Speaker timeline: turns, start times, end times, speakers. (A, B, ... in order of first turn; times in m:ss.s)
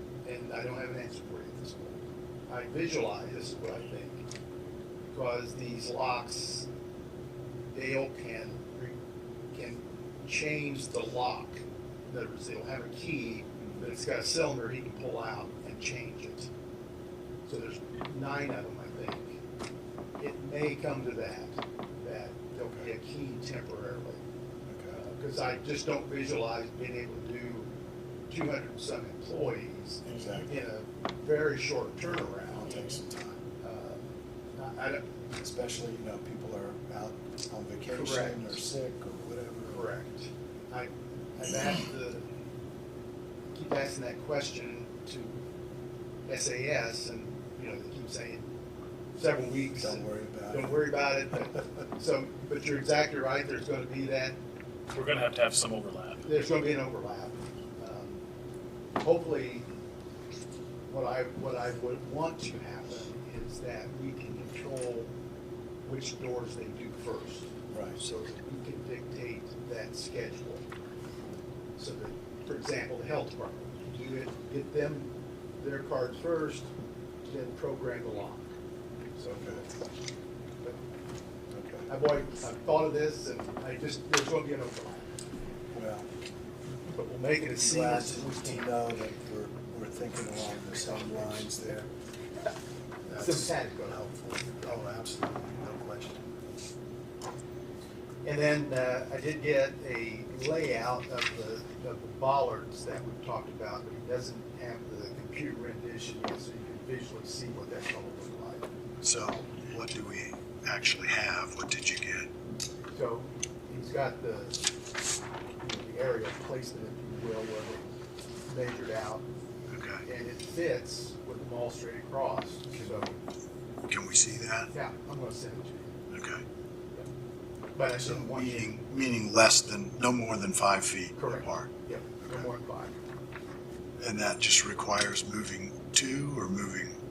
0:00.2-0:04.2 A
0:05.1-0:06.7 A
0:07.7-0:09.0 A
0:09.5-0:16.5 A
0:17.4-0:19.4 A
0:20.2-0:24.2 A
0:24.7-0:25.0 B
0:24.9-0:27.7 A
0:28.3-0:32.7 A
0:30.0-0:30.5 B
0:30.1-0:30.4 C
0:32.3-0:33.4 B
0:32.7-0:33.0 C
0:33.6-0:34.0 A
0:34.6-0:35.0 A
0:35.4-0:39.9 B
0:37.9-0:38.6 A
0:39.7-0:42.3 A
0:43.5-0:45.4 A
0:46.2-0:48.4 A
0:49.1-0:54.4 A
0:49.8-0:50.8 B
0:54.9-0:56.2 C
0:56.2-0:58.2 A
0:59.0-0:59.7 A
1:00.9-1:05.1 A
1:05.8-1:10.6 A
1:07.7-1:08.0 B
1:11.8-1:16.7 A
1:17.2-1:18.5 A
1:19.2-1:19.8 A
1:19.4-1:19.6 B
1:21.5-1:21.9 B
1:21.9-1:25.2 A
1:25.7-1:26.1 B
1:26.9-1:28.6 A
1:27.5-1:31.9 B
1:30.7-1:31.7 A
1:33.1-1:36.3 B
1:33.1-1:34.0 A
1:38.2-1:48.6 A
1:49.0-1:52.3 B
1:52.9-1:54.6 A
1:55.6-1:57.9 A
1:58.5-1:59.2 A
1:59.7-2:00.0 B
2:00.0-2:03.2 A
2:02.7-2:03.2 B
2:03.8-2:04.7 B
2:04.7-2:05.9 A
2:06.1-2:06.4 B
2:07.7-2:08.8 A
2:08.0-2:11.7 B
2:11.2-2:12.9 A
2:14.0-2:17.0 B